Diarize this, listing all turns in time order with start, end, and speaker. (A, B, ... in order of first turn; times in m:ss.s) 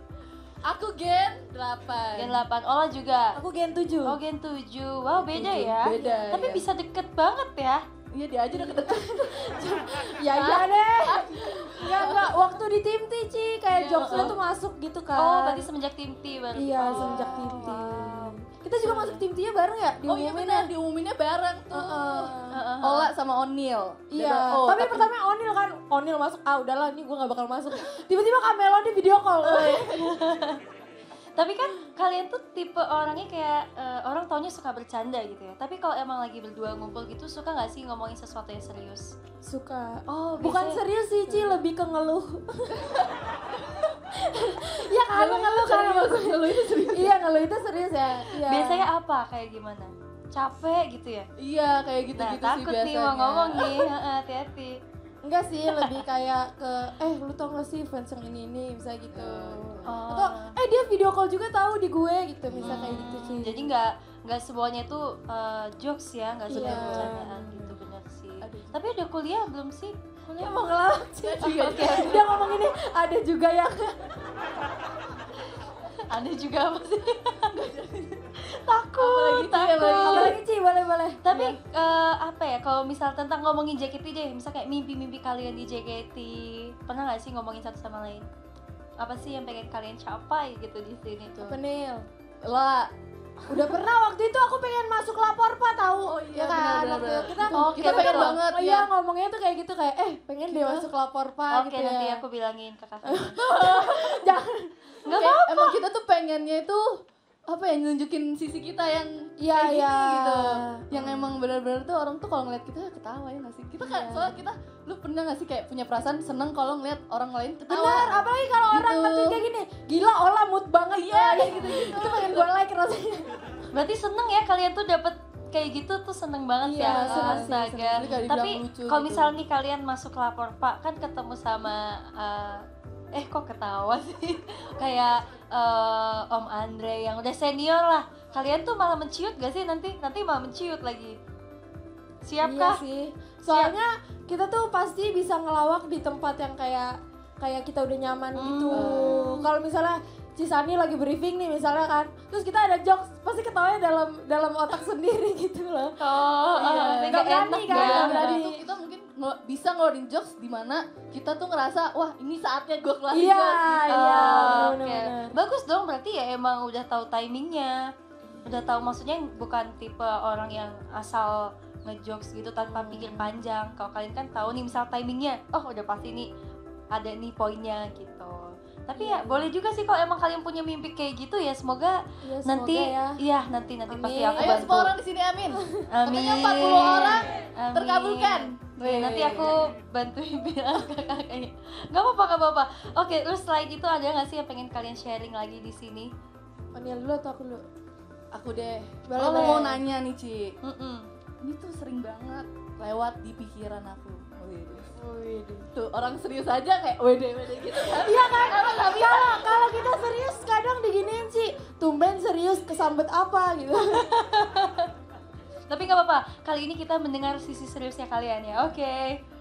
0:00.7-0:02.4 A
0:02.2-0:03.4 B
0:03.4-0:04.1 C
0:04.0-0:07.8 B
0:05.4-0:06.6 A
0:05.6-0:06.4 C
0:08.1-0:12.4 A
0:08.5-0:15.7 C
0:13.7-0:14.4 A
0:14.0-0:14.3 B
0:15.2-0:18.1 B
0:16.6-0:20.7 C
0:16.9-0:17.8 A
0:18.8-0:19.2 B
0:20.0-0:25.1 A
0:21.7-0:22.6 C
0:22.5-0:23.1 B
0:24.1-0:29.9 C
0:29.5-0:29.8 A
0:29.8-0:30.6 B
0:31.4-0:39.2 B
0:39.4-0:42.8 C
0:40.1-0:40.8 B
0:41.3-0:41.6 A
0:44.3-0:48.9 C
0:45.0-0:47.1 A
0:48.4-0:51.3 B
0:51.4-0:53.9 A
0:52.2-0:54.8 B
0:55.2-1:03.7 C
0:59.1-1:00.0 A
0:59.8-1:00.6 B
1:02.5-1:03.1 A
1:02.6-1:10.0 B
1:06.5-1:07.1 A
1:06.5-1:07.7 C
1:08.4-1:08.8 A
1:10.3-1:13.9 C
1:11.4-1:12.2 B
1:11.5-1:12.2 A
1:16.1-1:17.5 B
1:17.6-1:18.2 A
1:18.4-1:20.4 B
1:19.0-1:20.4 A
1:19.9-1:21.6 C
1:21.2-1:28.3 B
1:29.0-1:31.6 B
1:31.4-1:32.0 C
1:32.4-1:32.9 A
1:33.5-1:33.9 A
1:33.5-1:42.2 C
1:36.1-1:38.9 A
1:37.5-1:38.4 B
1:40.5-1:40.9 A
1:41.5-1:43.4 B
1:43.0-1:45.4 C
1:43.5-1:44.2 A
1:45.0-1:45.8 B
1:45.1-1:59.4 A
1:49.4-1:51.3 C
1:53.8-1:54.4 C
1:57.7-2:03.3 C
2:01.0-2:02.5 A
2:03.7-2:21.2 B
2:06.7-2:08.2 C
2:06.8-2:09.4 A
2:22.2-2:22.8 B
2:22.4-2:38.6 C
2:23.5-2:23.8 B
2:28.4-2:29.4 B
2:28.7-2:29.3 A
2:36.0-2:38.4 B
2:36.5-2:44.7 A
2:43.1-2:45.3 C
2:43.9-2:47.9 B
2:48.4-2:56.3 B
2:52.7-2:53.3 C
2:56.9-3:04.9 B
2:59.0-2:59.5 C
3:02.2-3:03.2 C
3:03.9-3:04.8 C
3:04.4-3:09.5 A
3:05.9-3:16.1 B
3:16.8-3:17.6 C
3:18.3-3:20.6 A
3:19.1-3:19.8 C
3:20.6-3:21.0 B
3:21.4-3:24.9 A
3:25.0-3:25.7 C
3:25.8-3:29.6 A
3:27.9-3:34.1 C
3:34.0-3:34.9 B
3:35.7-3:39.2 B